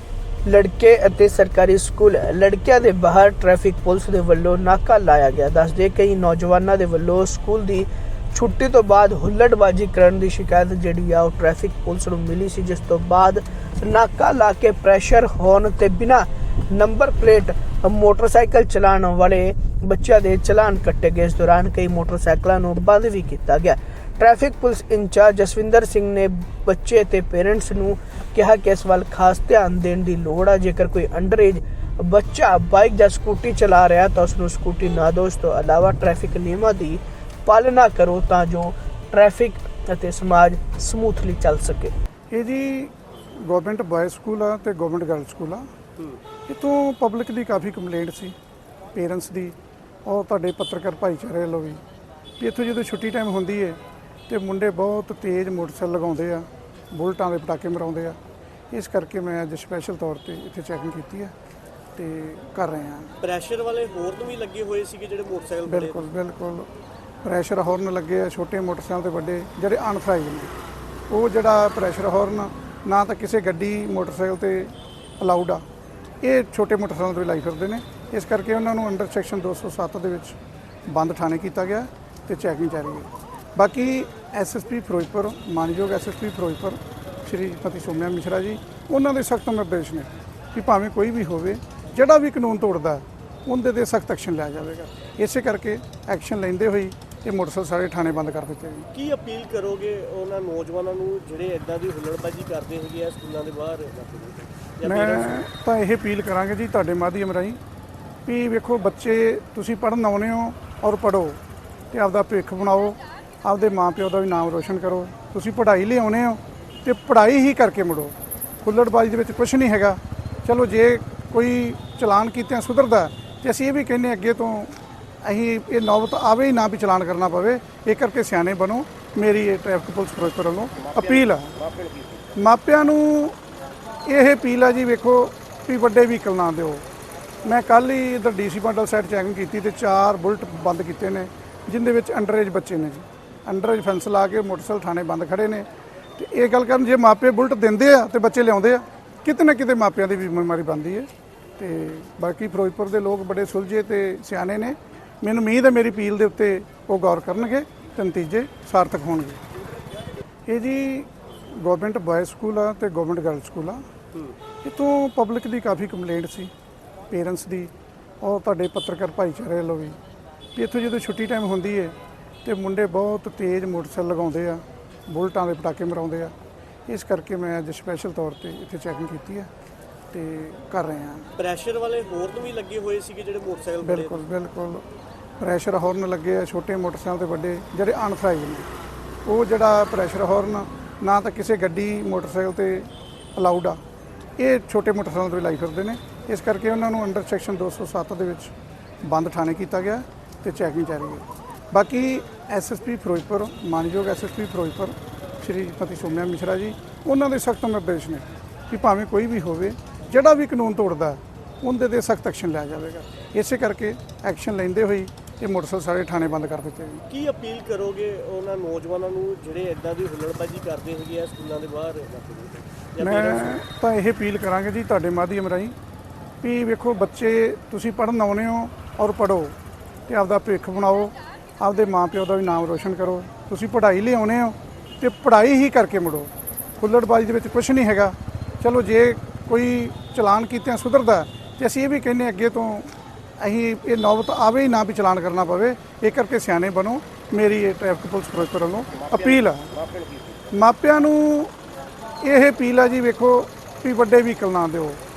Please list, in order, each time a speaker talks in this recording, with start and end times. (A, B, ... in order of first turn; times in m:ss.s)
0:00.4-0:41.9 A
0:42.3-0:45.7 B
0:46.5-0:48.3 B
0:48.9-0:51.8 B
0:52.4-0:58.2 B
0:58.7-1:01.3 B
1:02.0-1:03.1 B
1:03.2-1:06.1 C
1:05.6-1:06.7 B
1:07.2-1:10.5 B
1:11.1-1:15.6 B
1:16.2-1:38.9 B
1:38.9-1:45.4 C
1:44.8-1:47.6 B
1:48.2-1:51.4 B
1:51.9-2:11.6 B
2:12.4-2:13.4 B
2:14.0-2:16.8 B
2:17.4-2:39.4 B
2:40.5-2:43.8 B
2:44.6-2:46.5 B
2:47.1-2:50.0 B
2:50.5-2:56.3 B
2:56.9-2:59.5 B
3:00.1-3:01.3 B
3:01.4-3:04.2 C
3:03.8-3:04.8 B
3:05.4-3:08.7 B
3:09.2-3:13.8 B
3:14.4-3:37.0 B
3:37.1-3:43.6 C
3:43.0-3:45.7 B
3:46.4-3:49.6 B
3:50.1-4:09.7 B
4:10.5-4:11.5 B
4:12.2-4:15.0 B